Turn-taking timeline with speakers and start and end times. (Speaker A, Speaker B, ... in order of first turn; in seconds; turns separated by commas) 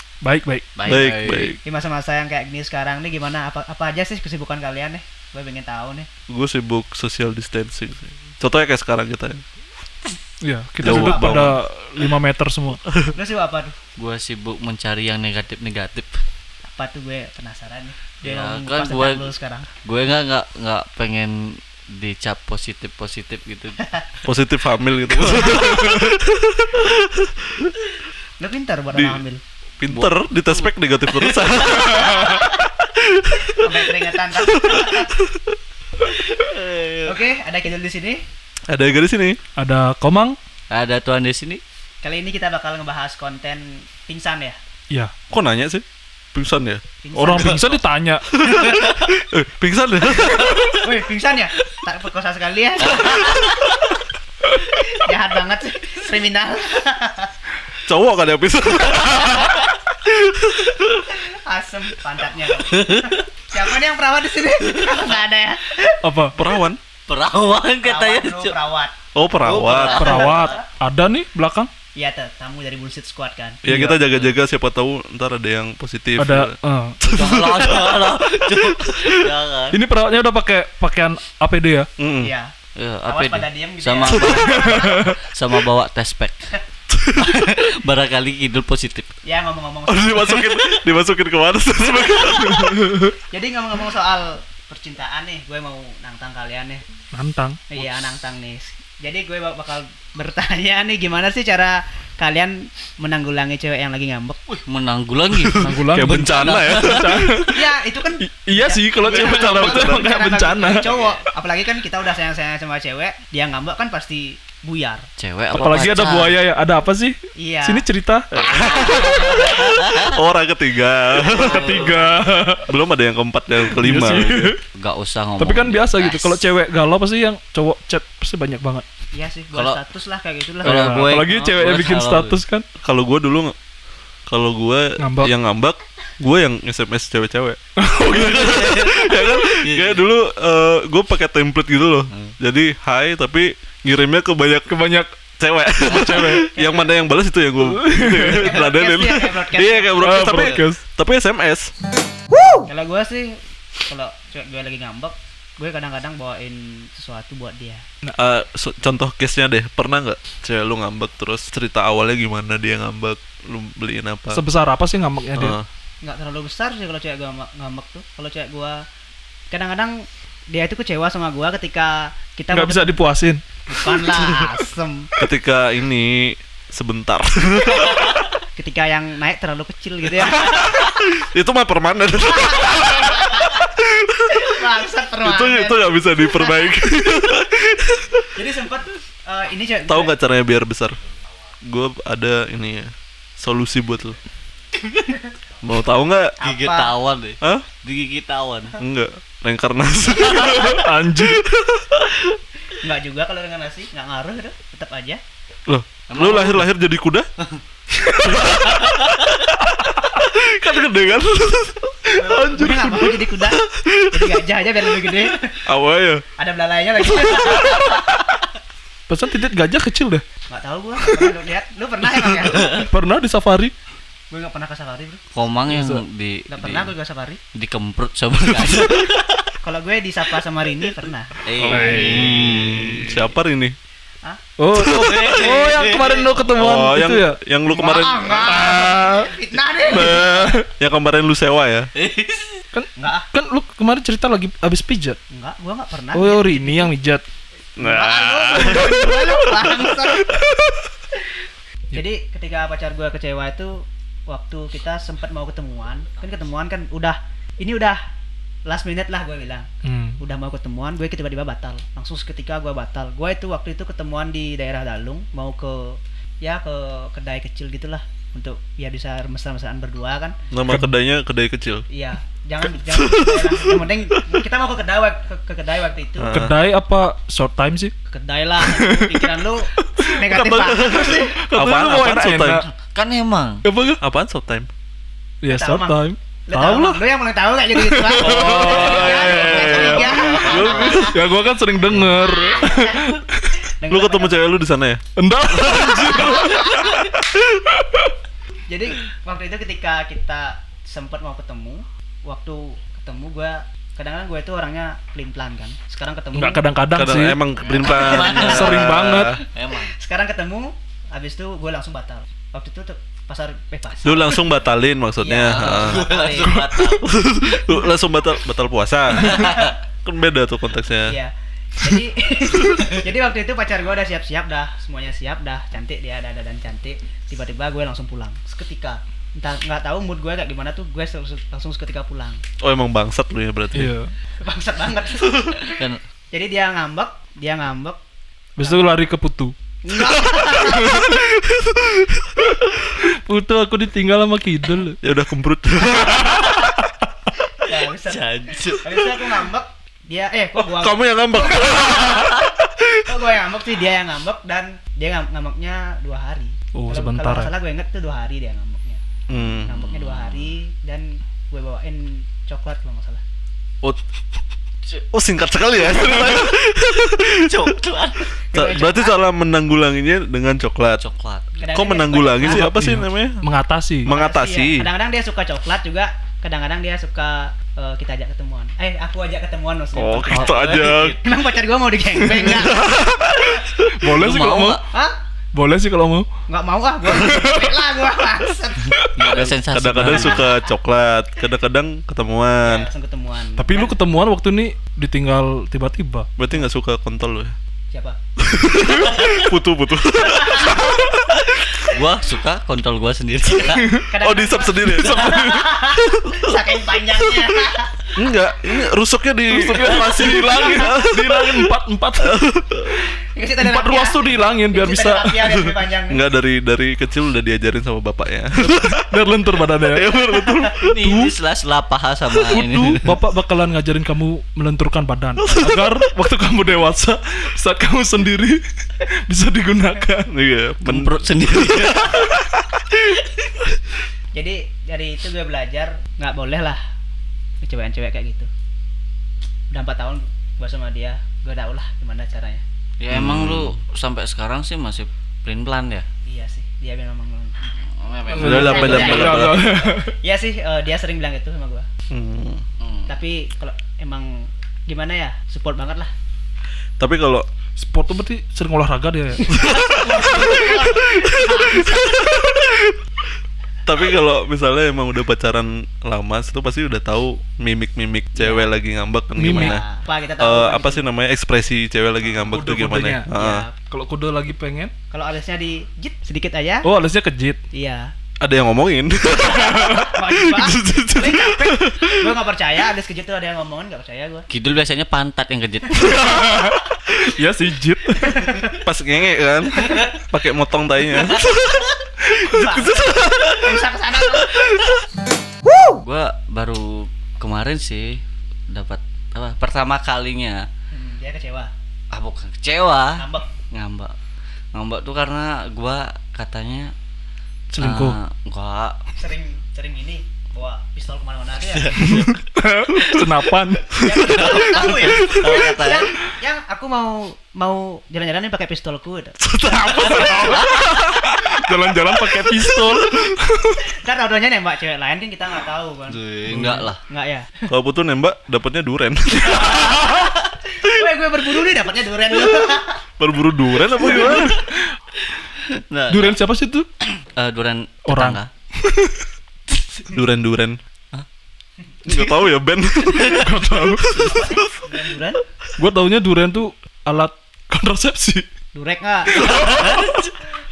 Speaker A: 0.2-1.0, Speaker B: 0.8-1.6, Speaker C: 0.9-1.6, Speaker D: 1.6-6.1, Speaker C: 6.3-9.4, Speaker A: 10.4-12.8, Speaker C: 10.8-11.6, Speaker D: 10.8-11.3, Speaker D: 13.1-13.8, Speaker B: 14.0-16.2, Speaker D: 16.7-19.7, Speaker B: 18.2-19.3, Speaker B: 19.8-23.8, Speaker C: 24.2-27.7, Speaker B: 25.2-25.9, Speaker D: 28.4-29.4, Speaker C: 28.9-29.2, Speaker C: 29.8-33.7, Speaker B: 29.9-32.5, Speaker D: 33.6-35.1, Speaker C: 34.4-35.5, Speaker B: 36.3-37.1, Speaker D: 37.0-38.2, Speaker C: 38.7-39.4, Speaker A: 39.6-40.4, Speaker B: 40.7-41.6, Speaker D: 42.0-44.6, Speaker C: 45.3-46.8, Speaker D: 47.0-47.9, Speaker A: 47.1-48.3, Speaker C: 48.4-50.9, Speaker D: 48.5-48.8, Speaker D: 50.4-53.5, Speaker B: 52.9-53.7, Speaker D: 54.8-57.3, Speaker C: 57.9-61.0, Speaker D: 61.2-66.0, Speaker B: 62.7-63.2, Speaker A: 66.0-66.4, Speaker C: 66.3-66.8, Speaker B: 67.1-68.6, Speaker D: 67.8-68.9, Speaker C: 69.1-70.1, Speaker B: 69.4-70.6, Speaker A: 69.9-71.7, Speaker D: 70.0-70.6, Speaker D: 72.0-73.6, Speaker C: 73.6-79.3, Speaker A: 73.7-74.0, Speaker A: 76.2-77.0, Speaker B: 77.1-79.8, Speaker A: 79.7-81.9, Speaker C: 82.0-82.3, Speaker D: 82.2-82.5, Speaker B: 82.8-86.5, Speaker D: 83.1-85.0, Speaker A: 84.5-85.2, Speaker C: 86.9-87.4, Speaker B: 87.2-89.1, Speaker D: 89.2-90.6, Speaker C: 89.9-93.0, Speaker A: 92.6-93.1, Speaker D: 93.3-96.8, Speaker A: 97.1-97.8, Speaker D: 97.7-104.4, Speaker B: 104.7-107.2, Speaker C: 105.4-107.3, Speaker A: 105.6-107.7, Speaker D: 107.4-115.1, Speaker A: 108.2-110.9, Speaker C: 109.0-110.1, Speaker B: 110.7-111.2, Speaker B: 115.2-116.3, Speaker A: 115.5-119.0, Speaker D: 117.4-117.8, Speaker C: 118.4-121.8, Speaker B: 118.9-120.2, Speaker D: 121.3-122.2, Speaker B: 121.3-122.0, Speaker A: 121.5-122.7, Speaker C: 122.7-124.5, Speaker A: 123.6-124.6, Speaker B: 124.8-126.4, Speaker A: 125.4-128.8, Speaker D: 129.1-131.1, Speaker B: 129.5-129.8, Speaker B: 130.6-132.4, Speaker A: 130.6-132.7, Speaker C: 132.8-133.5, Speaker C: 134.3-144.7, Speaker A: 135.0-135.3, Speaker A: 137.8-139.0, Speaker B: 138.3-140.0, Speaker A: 144.7-145.1, Speaker C: 145.4-151.7, Speaker A: 145.9-146.5, Speaker D: 146.5-146.9, Speaker A: 147.7-148.5, Speaker D: 148.2-150.3, Speaker A: 150.0-150.8, Speaker D: 152.7-157.8, Speaker C: 158.2-164.4, Speaker A: 164.3-165.6, Speaker C: 165.4-165.7, Speaker D: 166.0-168.8, Speaker D: 169.5-173.0, Speaker A: 172.5-173.4, Speaker D: 173.7-175.1, Speaker C: 175.2-178.2, Speaker D: 178.6-180.9, Speaker C: 180.2-184.5, Speaker D: 182.6-183.5, Speaker D: 184.3-186.3, Speaker C: 185.2-188.2, Speaker D: 188.3-190.2, Speaker C: 189.9-191.0, Speaker C: 191.6-194.2, Speaker B: 194.8-195.1, Speaker C: 195.6-196.3, Speaker D: 196.4-196.9, Speaker B: 196.4-198.7, Speaker C: 198.8-202.2, Speaker A: 200.4-201.4, Speaker D: 202.8-205.2, Speaker C: 205.7-207.3, Speaker B: 206.1-206.7, Speaker C: 208.2-214.4, Speaker B: 208.8-209.2, Speaker D: 212.1-215.6, Speaker C: 215.1-216.2, Speaker D: 216.4-218.0, Speaker C: 217.2-217.8, Speaker A: 219.1-220.2, Speaker D: 220.5-222.9, Speaker A: 221.0-221.3, Speaker A: 222.6-223.7, Speaker D: 224.3-225.2, Speaker B: 225.3-226.9, Speaker A: 225.7-226.0, Speaker D: 226.5-227.4, Speaker B: 227.5-229.4, Speaker D: 229.6-231.3, Speaker B: 231.4-233.2, Speaker C: 231.6-233.8, Speaker A: 231.7-232.6, Speaker A: 234.6-237.4, Speaker C: 234.7-235.5, Speaker B: 234.8-236.3, Speaker C: 236.6-238.8, Speaker D: 237.7-240.5, Speaker A: 238.5-239.3, Speaker C: 239.9-241.9, Speaker A: 240.0-240.7, Speaker B: 241.9-242.6, Speaker A: 242.7-245.2, Speaker D: 243.0-243.3, Speaker D: 245.3-246.9, Speaker A: 246.1-247.2, Speaker C: 247.8-250.8, Speaker D: 247.8-250.3, Speaker D: 251.9-258.0, Speaker D: 258.6-259.7, Speaker A: 259.8-260.2, Speaker D: 260.2-270.4, Speaker C: 270.5-271.9, Speaker D: 271.9-276.5, Speaker C: 272.8-273.9, Speaker C: 276.2-276.6, Speaker A: 276.3-277.9, Speaker D: 278.1-281.3, Speaker A: 278.6-280.1, Speaker C: 280.3-282.6, Speaker A: 281.3-282.6, Speaker B: 282.8-283.6, Speaker A: 283.6-284.0, Speaker C: 284.0-284.7, Speaker A: 285.4-287.0, Speaker D: 285.5-291.1, Speaker A: 287.8-290.0, Speaker C: 288.2-291.1, Speaker B: 289.1-291.1, Speaker A: 291.0-293.6, Speaker B: 291.9-292.9, Speaker D: 292.6-293.1, Speaker D: 293.8-294.4, Speaker C: 293.9-296.4, Speaker A: 295.1-298.1, Speaker D: 296.1-296.8, Speaker D: 298.7-306.7, Speaker A: 306.3-307.4, Speaker C: 306.9-309.4, Speaker D: 307.8-308.8, Speaker B: 307.8-308.9, Speaker A: 308.2-309.4, Speaker B: 309.5-309.9, Speaker D: 309.9-314.4, Speaker C: 314.0-316.1, Speaker D: 315.2-316.6, Speaker B: 315.5-317.2, Speaker C: 317.0-321.1, Speaker B: 319.2-319.7, Speaker D: 321.1-332.4, Speaker C: 332.6-333.9, Speaker A: 333.8-334.1, Speaker D: 334.4-335.8, Speaker B: 335.8-336.0, Speaker D: 336.3-338.0, Speaker A: 338.6-339.6, Speaker D: 338.6-338.9, Speaker D: 339.9-341.1, Speaker A: 340.7-341.1, Speaker C: 341.0-342.4, Speaker A: 343.0-345.0, Speaker C: 345.0-346.6, Speaker D: 347.6-352.4, Speaker B: 348.1-348.9, Speaker C: 350.6-353.0, Speaker D: 353.1-359.0, Speaker A: 356.7-357.5, Speaker C: 359.3-359.9, Speaker D: 359.6-363.2, Speaker B: 360.0-360.4, Speaker C: 365.1-367.8, Speaker B: 367.4-368.3, Speaker D: 368.5-369.2, Speaker C: 368.5-371.0, Speaker B: 371.0-371.5, Speaker D: 371.6-372.7, Speaker C: 371.7-373.4, Speaker A: 372.4-374.1, Speaker C: 374.0-374.9, Speaker D: 374.1-382.9, Speaker C: 379.9-381.2, Speaker B: 380.3-381.2, Speaker C: 382.4-384.1, Speaker A: 383.9-384.9, Speaker B: 384.2-384.8, Speaker D: 384.9-385.2, Speaker A: 385.5-386.3, Speaker D: 386.5-389.0, Speaker A: 387.2-387.7, Speaker B: 389.1-390.4, Speaker C: 389.2-392.9, Speaker D: 392.6-393.9, Speaker A: 393.6-396.3, Speaker C: 396.4-397.6, Speaker D: 397.9-398.2, Speaker C: 398.4-401.4, Speaker B: 399.1-399.5, Speaker D: 400.2-400.8, Speaker B: 401.5-403.9, Speaker A: 403.7-404.1, Speaker D: 404.1-408.1, Speaker C: 404.2-406.6, Speaker A: 404.9-405.7, Speaker C: 408.1-413.0, Speaker A: 409.5-412.4, Speaker D: 413.4-416.2, Speaker A: 413.6-415.5, Speaker C: 416.1-419.1, Speaker A: 418.6-420.1, Speaker C: 419.8-421.1, Speaker B: 420.8-423.1, Speaker A: 421.0-421.3, Speaker A: 422.4-430.3, Speaker C: 425.4-426.1, Speaker C: 430.3-432.5, Speaker B: 430.9-432.2, Speaker D: 434.3-436.8, Speaker D: 437.6-438.5, Speaker D: 439.7-442.6, Speaker B: 443.0-446.1, Speaker C: 443.1-443.8, Speaker D: 446.2-447.6, Speaker B: 448.0-449.3, Speaker A: 448.3-450.2, Speaker D: 448.3-451.9, Speaker C: 448.4-449.7, Speaker C: 452.1-452.6, Speaker B: 452.8-453.1, Speaker D: 453.1-456.1, Speaker C: 457.0-457.5, Speaker A: 457.8-459.8, Speaker D: 459.5-462.2, Speaker C: 459.6-463.0, Speaker C: 463.9-469.8, Speaker D: 468.4-468.7, Speaker A: 469.4-469.8, Speaker D: 469.4-471.1, Speaker C: 470.4-473.6, Speaker A: 472.5-474.9, Speaker D: 473.3-473.8, Speaker D: 475.1-476.9, Speaker A: 476.8-477.6, Speaker D: 477.7-478.1, Speaker C: 478.4-482.4, Speaker D: 479.7-484.5, Speaker B: 484.5-486.2, Speaker A: 486.3-488.6, Speaker D: 488.2-488.8, Speaker C: 488.8-493.9, Speaker D: 492.4-494.5, Speaker C: 494.4-494.9, Speaker B: 495.9-500.7, Speaker D: 500.9-501.7, Speaker B: 502.1-504.1, Speaker D: 503.2-503.5, Speaker B: 504.7-506.9, Speaker A: 507.7-508.2, Speaker B: 507.8-509.0, Speaker D: 509.1-512.2, Speaker B: 511.7-512.4, Speaker A: 512.0-514.0, Speaker C: 513.0-513.2, Speaker C: 514.0-515.5, Speaker D: 514.0-520.6, Speaker B: 514.4-516.1, Speaker C: 519.4-521.6, Speaker A: 519.9-520.7, Speaker A: 521.4-523.8, Speaker C: 522.5-523.4, Speaker D: 523.9-526.2, Speaker B: 526.1-527.0, Speaker A: 526.5-526.9, Speaker D: 527.0-527.7, Speaker C: 527.7-530.1, Speaker D: 529.5-530.0, Speaker D: 530.7-533.0, Speaker C: 533.2-534.6, Speaker B: 535.6-536.4, Speaker A: 536.1-536.9, Speaker B: 537.4-538.5, Speaker A: 538.1-539.2, Speaker C: 540.1-540.8, Speaker C: 542.1-544.7, Speaker B: 543.2-543.4, Speaker A: 543.3-544.3, Speaker D: 544.2-545.4, Speaker A: 545.8-548.5, Speaker D: 548.8-549.7, Speaker C: 549.4-550.0, Speaker B: 549.6-550.2